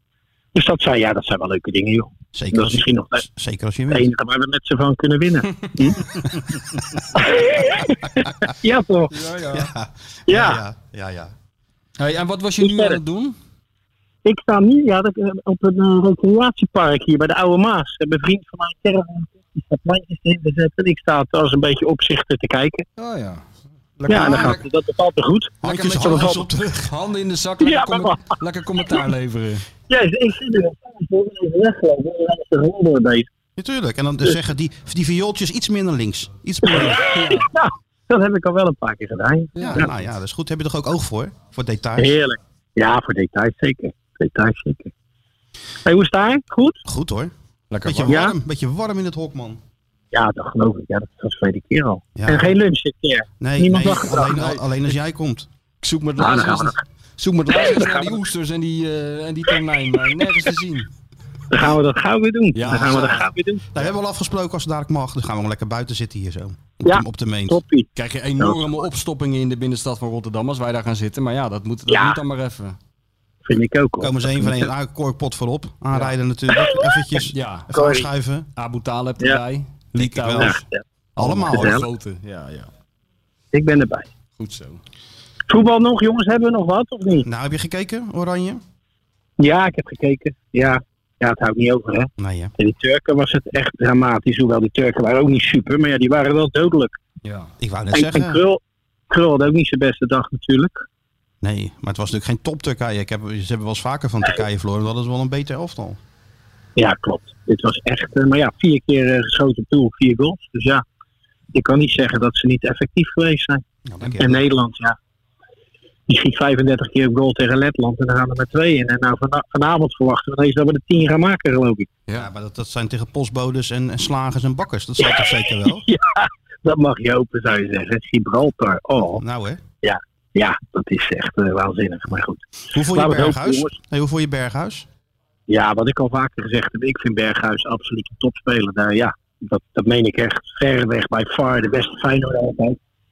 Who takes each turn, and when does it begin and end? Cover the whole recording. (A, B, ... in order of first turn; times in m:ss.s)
0:00.5-0:03.2 A
0:02.3-0:04.1 B
0:03.9-0:06.1 A
0:07.1-0:09.1 A
0:09.1-0:09.7 C
0:09.5-0:11.3 B
0:10.3-0:10.6 A
0:12.0-0:13.4 C
0:12.6-0:13.0 A
0:14.2-0:22.8 A
0:23.0-0:23.4 C
0:24.0-0:24.6 B
0:24.0-0:24.6 C
0:24.1-0:26.4 A
0:25.6-0:26.9 B
0:25.6-0:29.6 C
0:27.6-0:28.3 A
0:29.9-0:33.3 A
0:33.6-0:37.1 B
0:36.7-0:39.9 A
0:36.9-0:37.5 C
0:39.6-0:39.9 C
0:39.6-0:42.2 B
0:42.0-0:44.9 A
0:45.8-0:46.8 A
0:46.8-0:47.3 B
0:47.7-0:48.2 C
0:47.8-0:49.6 B
0:48.1-0:48.4 A
0:50.1-0:54.5 A
0:52.2-0:52.6 B
0:53.4-0:55.5 B
0:54.3-0:54.6 C
0:55.8-1:00.9 C
0:56.2-0:56.8 A
0:57.5-0:58.1 A
1:01.5-1:03.6 A
1:02.5-1:03.3 C
1:02.7-1:03.1 B
1:03.7-1:07.6 B
1:06.8-1:07.9 A
1:07.9-1:12.8 C
1:11.9-1:12.2 A
1:13.4-1:14.6 A
1:14.0-1:18.5 B
1:16.6-1:17.0 A
1:17.3-1:17.7 C
1:17.7-1:18.1 A
1:18.6-1:20.6 C
1:20.0-1:20.6 B
1:20.4-1:20.8 A
1:21.2-1:22.7 C
1:21.2-1:21.8 B
1:21.5-1:21.8 A
1:23.5-1:24.1 A
1:24.4-1:24.8 C
1:25.5-1:27.2 A
1:27.2-1:28.6 B
1:29.4-1:37.0 A
1:32.2-1:32.5 B
1:37.2-1:37.5 C
1:37.6-1:38.4 B
1:37.9-1:40.8 A
1:41.4-1:46.0 B
1:46.8-1:50.8 A
1:51.5-1:53.6 A
1:53.8-1:54.4 B
1:54.2-1:55.0 A
1:56.1-2:01.9 A
2:02.1-2:05.8 B
2:05.0-2:09.2 A
2:09.2-2:09.6 B
2:09.8-2:13.7 A
2:12.7-2:14.9 B
2:15.5-2:22.8 A